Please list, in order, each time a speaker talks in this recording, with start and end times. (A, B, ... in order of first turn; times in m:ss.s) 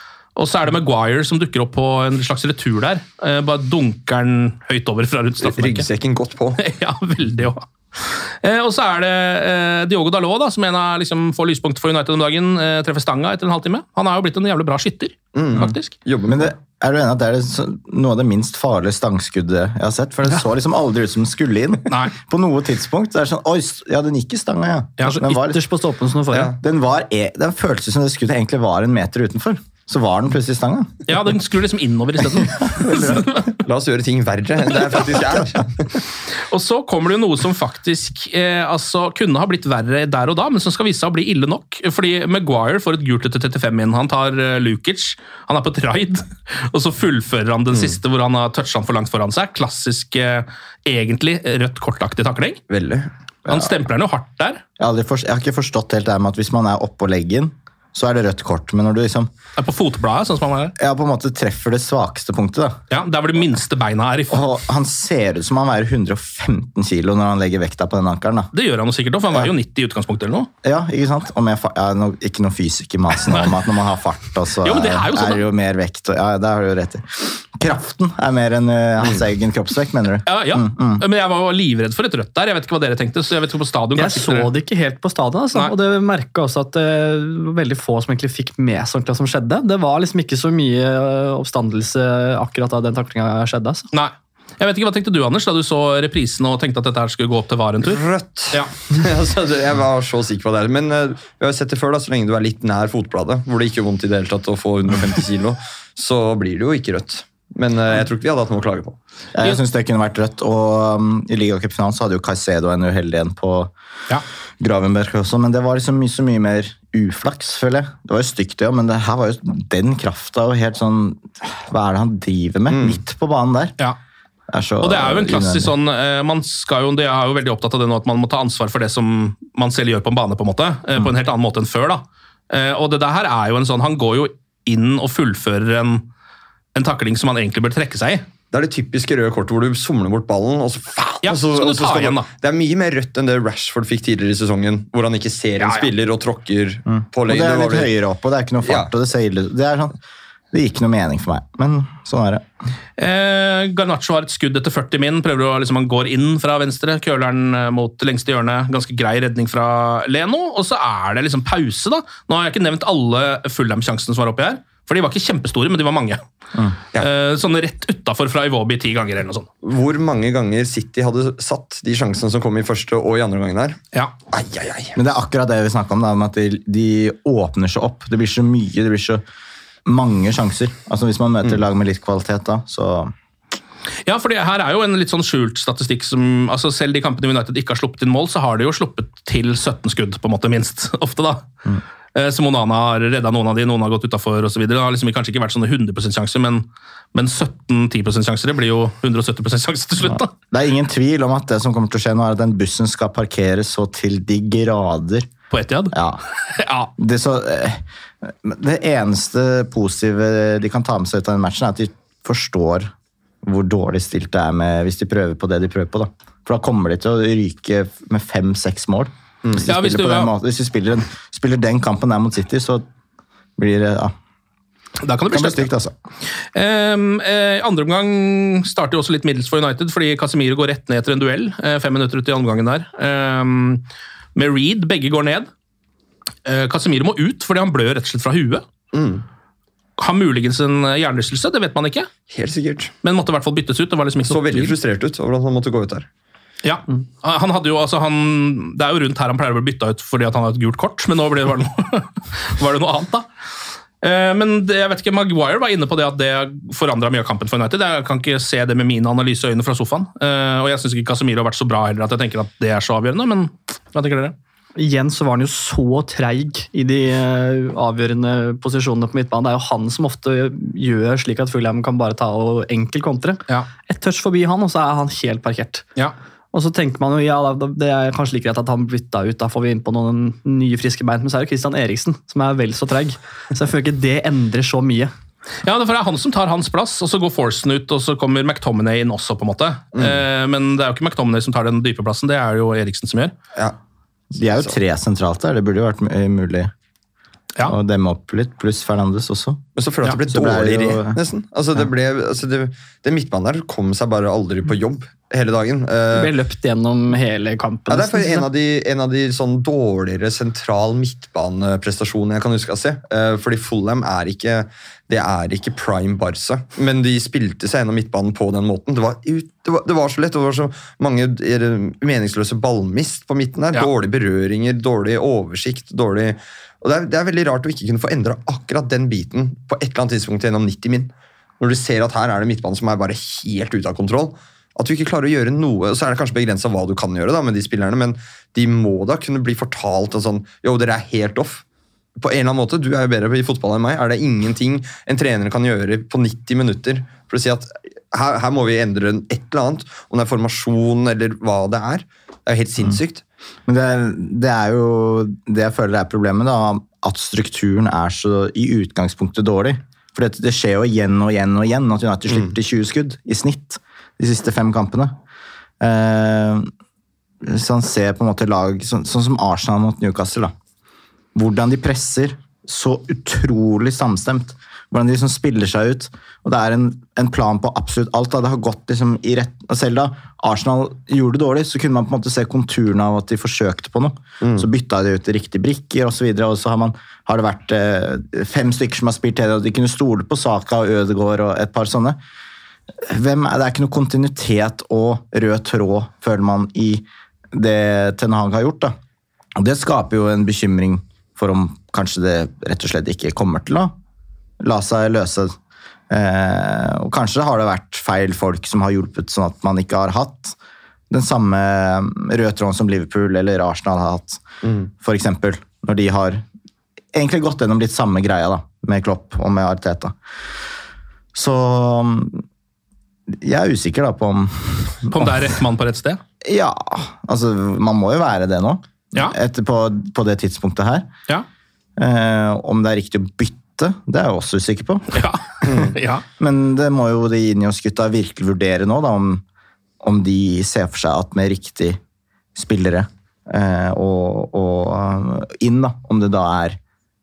0:00.4-0:05.8 A
0:05.4-0:06.6 B
0:06.6-0:15.9 A
0:15.3-0:16.5 B
0:16.2-0:25.6 C
0:25.0-0:26.5 D
0:26.3-0:26.6 B
0:26.6-0:30.9 C
0:31.1-0:33.6 A
0:32.8-0:33.2 C
0:33.6-0:35.7 B
0:36.5-0:52.6 A
0:47.7-0:48.0 B
0:52.7-0:53.1 B
0:53.5-0:53.7 C
0:53.5-0:54.6 A
0:54.8-0:59.3 C
0:59.6-1:00.7 A
1:00.8-1:02.8 C
1:02.9-1:04.4 A
1:04.3-1:08.5 C
1:08.5-1:10.5 A
1:10.6-1:21.0 C
1:14.6-1:15.4 A
1:20.2-1:24.5 A
1:24.0-1:33.9 D
1:33.9-1:38.0 A
1:37.8-1:49.0 B
1:49.3-1:53.7 C
1:54.6-2:03.8 C
2:02.7-2:03.0 B
2:04.5-2:05.7 C
2:04.8-2:16.0 A
2:16.7-2:18.2 A
2:18.5-2:27.9 B
2:21.2-2:22.3 A
2:25.6-2:25.9 A
2:26.9-2:30.0 C
2:28.6-2:28.9 B
2:30.5-2:32.4 C
2:33.0-2:46.2 A
2:47.0-2:49.5 A
2:49.6-2:53.8 B
2:54.3-2:55.0 B
2:55.0-2:59.2 C
2:59.8-3:03.1 C
3:04.0-3:11.4 A
3:12.1-3:20.3 A
3:20.1-3:25.3 C
3:25.5-3:25.9 A
3:25.9-3:26.2 C
3:26.5-3:26.9 A
3:27.0-3:32.9 C
3:33.4-3:42.8 C
3:39.6-3:40.3 A
3:43.6-3:44.1 C
3:45.0-3:45.7 A
3:45.3-3:45.9 C
3:46.5-3:53.8 A
3:54.3-3:55.5 A
3:56.4-3:58.6 A
3:58.9-3:59.2 B
4:00.0-4:02.1 A
4:02.3-4:02.9 B
4:03.0-4:04.8 A
4:04.2-4:06.1 B
4:06.6-4:13.3 A
4:14.0-4:24.3 A
4:24.8-4:35.8 D
4:36.5-4:45.1 D
4:45.6-4:53.3 A
4:49.9-4:50.2 B
4:54.3-4:56.7 C
4:54.4-4:54.7 B
4:57.6-4:59.6 C
4:59.8-5:06.3 B
5:00.3-5:01.2 C
5:06.1-5:08.5 D
5:07.9-5:41.6 B
5:42.2-5:53.2 B
5:53.7-6:05.1 C
6:05.8-6:06.7 C
6:07.4-6:10.5 C
6:11.3-6:32.2 C
6:24.4-6:24.7 B
6:33.0-6:38.9 C
6:39.6-6:43.9 C
6:44.6-6:45.6 C
6:46.1-6:50.6 C
6:51.1-6:54.4 C
6:54.6-6:54.9 B
6:55.0-6:56.4 C
6:57.1-7:00.1 C
7:01.3-7:02.4 C
7:03.3-7:05.5 C
7:05.1-7:06.2 A
7:06.4-7:11.1 C
7:12.0-7:15.2 C
7:15.1-7:16.2 A
7:16.4-7:19.4 C
7:20.0-7:22.0 C
7:22.5-7:26.8 C